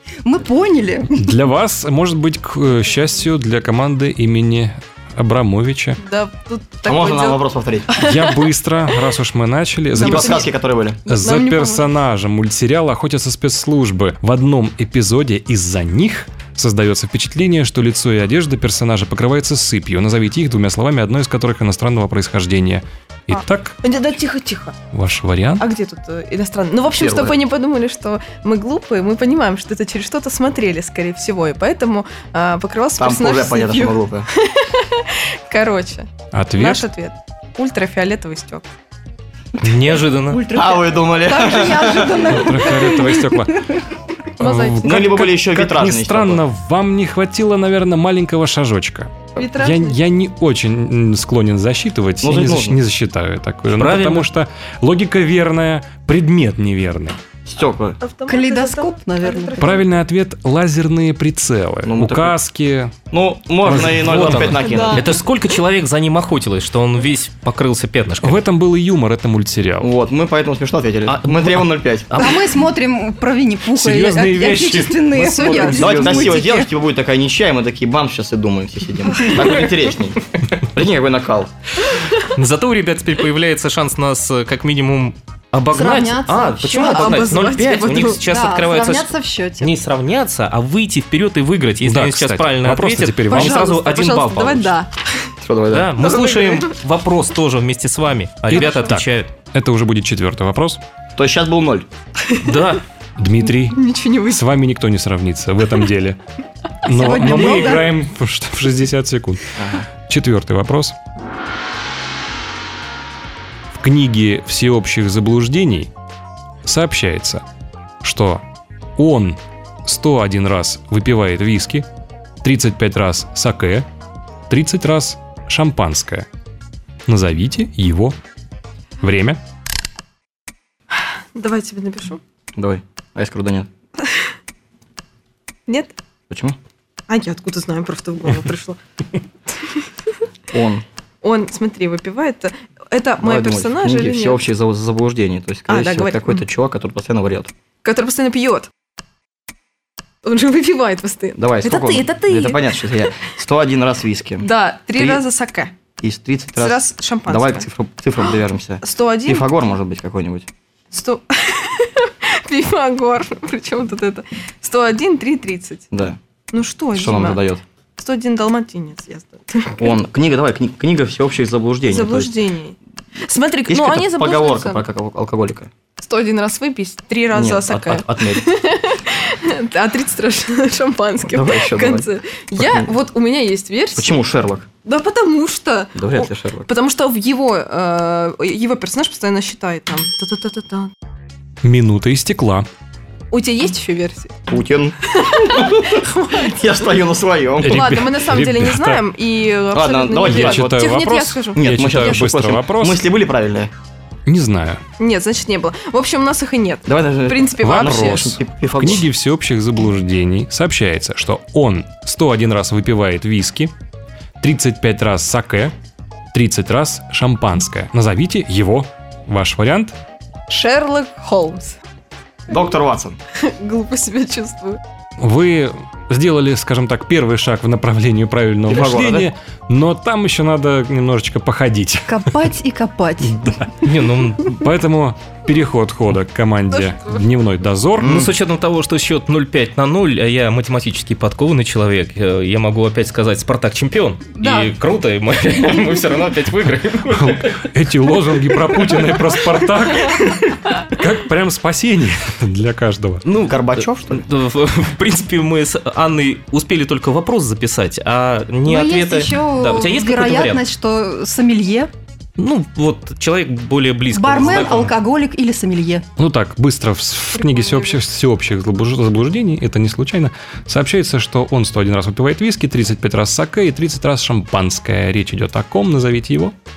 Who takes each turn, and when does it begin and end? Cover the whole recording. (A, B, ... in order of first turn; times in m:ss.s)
0:00.2-0:01.3 A
0:01.1-0:06.0 B
0:06.0-0:08.4 C
0:06.9-0:08.0 D
0:08.0-0:10.4 B
0:10.0-0:10.4 C
0:10.0-0:11.0 D
0:11.0-0:11.9 C
0:11.1-0:23.8 B
0:23.3-0:24.8 C
0:24.9-0:25.6 B
0:25.6-0:38.6 C
0:26.9-0:27.4 D
0:33.0-0:34.3 D
0:36.3-0:36.9 B
0:39.6-0:40.4 E
0:40.3-0:43.8 A
0:40.5-0:42.4 D
0:42.2-0:43.7 B
0:44.4-0:45.1 C
0:44.4-0:57.2 B
0:44.8-0:46.4 D
0:49.4-0:50.0 C
0:52.2-0:52.8 D
0:53.7-0:54.3 E
0:57.5-0:58.0 D
0:58.0-0:59.9 C
0:58.3-0:59.8 A
0:59.6-1:02.9 B
1:01.8-1:02.3 D
1:03.1-1:05.1 D
1:03.6-1:04.6 B
1:03.7-1:08.4 E
1:04.6-1:05.0 A
1:08.2-1:09.9 B
1:09.8-1:12.2 D
1:11.1-1:12.4 E
1:12.2-1:16.7 A
1:13.7-1:16.4 B
1:15.7-1:21.5 D
1:22.3-1:34.7 E
1:25.7-1:27.4 A
1:26.7-1:28.2 C
1:28.1-1:29.7 A
1:31.8-1:33.6 B
1:33.3-1:34.9 C
1:35.4-1:36.0 D
1:35.7-1:39.3 E
1:36.0-1:36.7 C
1:38.5-1:40.8 B
1:41.2-1:41.9 D
1:42.3-1:42.7 C
1:42.4-1:42.8 E
1:43.2-1:46.2 B
1:43.7-1:44.5 C
1:46.8-1:51.0 B
1:46.9-1:47.9 A
1:49.6-1:49.8 D
1:53.7-1:55.9 B
1:56.6-1:57.4 B
1:58.0-1:58.4 B
1:59.0-2:01.8 B
2:02.4-2:03.9 B
2:04.5-2:06.3 B
2:07.0-2:08.2 B
2:09.0-2:09.4 B
2:11.3-2:12.2 C
2:12.6-2:13.7 D
2:14.0-2:14.3 C
2:15.7-2:15.9 C
2:16.3-2:16.6 D
2:17.1-2:18.8 C
2:20.5-2:20.8 D
2:21.2-2:24.4 C
2:23.2-2:27.5 D
2:25.7-2:26.4 C
2:27.8-2:28.7 C
2:30.2-2:33.2 C
2:31.4-2:34.4 D
2:34.4-2:35.7 C
2:35.0-2:35.2 D
2:36.0-2:40.5 D
2:36.6-2:37.7 C
2:38.3-2:39.5 C
2:40.9-2:45.9 C
2:45.9-2:46.2 D
2:46.5-2:47.4 C
2:46.9-2:47.6 D
2:48.0-2:50.0 C
2:49.7-2:52.3 D
2:51.8-2:54.8 C
2:53.7-2:55.7 D
2:56.0-3:04.2 C
2:57.3-2:58.5 D
3:01.3-3:02.9 D
3:04.0-3:04.7 D
3:04.8-3:10.9 C
3:06.0-3:06.6 D
3:11.6-3:12.7 B
3:13.3-3:14.4 C
3:14.5-3:18.0 D
3:15.1-3:16.6 C
3:17.6-3:19.0 B
3:17.6-3:22.3 C
3:19.7-3:20.9 D
3:20.2-3:23.0 B
3:21.5-3:23.7 D
3:24.2-3:24.8 B
3:25.0-3:28.4 C
3:26.9-3:29.1 D
3:27.6-3:33.7 B
3:34.4-3:35.7 B
3:36.3-3:40.0 B
3:40.5-3:41.8 C
3:42.5-3:43.2 D
3:43.4-3:44.8 C
3:45.2-3:52.5 B
3:48.7-3:49.3 D
3:52.1-3:53.4 A
3:53.2-3:53.8 B
3:53.8-3:54.6 E
3:54.4-3:58.3 B
3:56.7-3:57.2 C
3:58.0-4:07.6 E
3:58.0-3:58.3 D
4:04.4-4:04.7 A
4:07.1-4:13.2 B
4:13.2-4:20.6 E
4:13.3-4:14.2 D
4:18.6-4:21.9 A
4:22.4-4:24.9 E
4:24.1-4:26.0 A
4:26.2-4:36.5 B
4:27.3-4:28.0 C